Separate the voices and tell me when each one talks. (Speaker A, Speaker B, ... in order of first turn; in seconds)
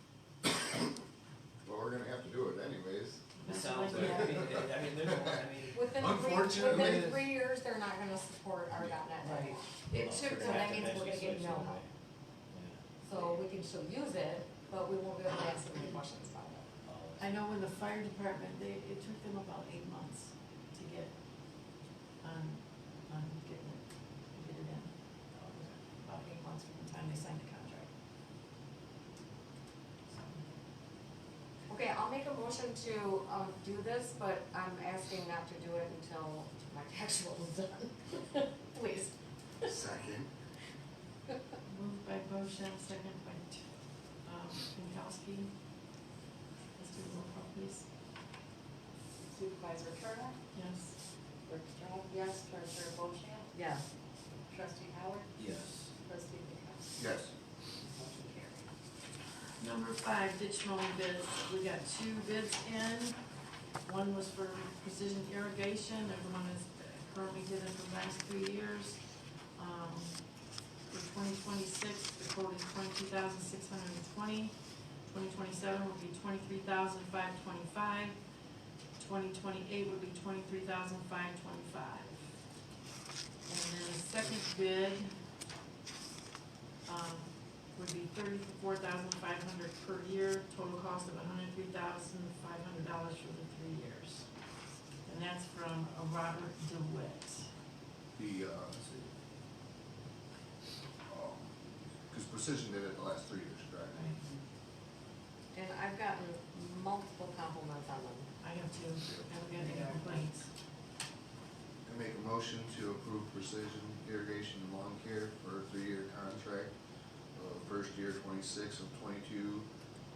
Speaker A: 1.6-3.2, 3.9-4.7, 5.9-7.3, 39.6-40.3, 57.0-57.3, 98.1-99.1, 101.1-101.5, 102.1-104.0, 111.8-116.7, 117.3-119.7
Speaker B: 3.4-4.5, 17.2-21.1, 22.2-24.9, 25.6-27.9, 30.1-30.4, 41.6-43.6, 44.2-45.5, 46.8-47.8, 50.5-51.0, 59.6-63.2, 63.8-69.0, 69.5-70.2, 70.9-74.5, 75.1-78.2, 79.0-82.2, 83.5-85.1, 86.8-94.2, 95.0-97.5, 103.9-104.2, 108.4-110.5
Speaker C: 3.4-6.3, 8.8-11.9, 12.5-12.8, 16.8-17.4, 25.3-25.8, 55.4-55.9
Speaker D: 5.7-11.8, 13.1-16.7, 31.7-39.1, 105.5-108.3
Speaker E: 49.3-50.4, 51.5-53.8, 54.5-57.0, 57.9-58.7, 109.6-110.0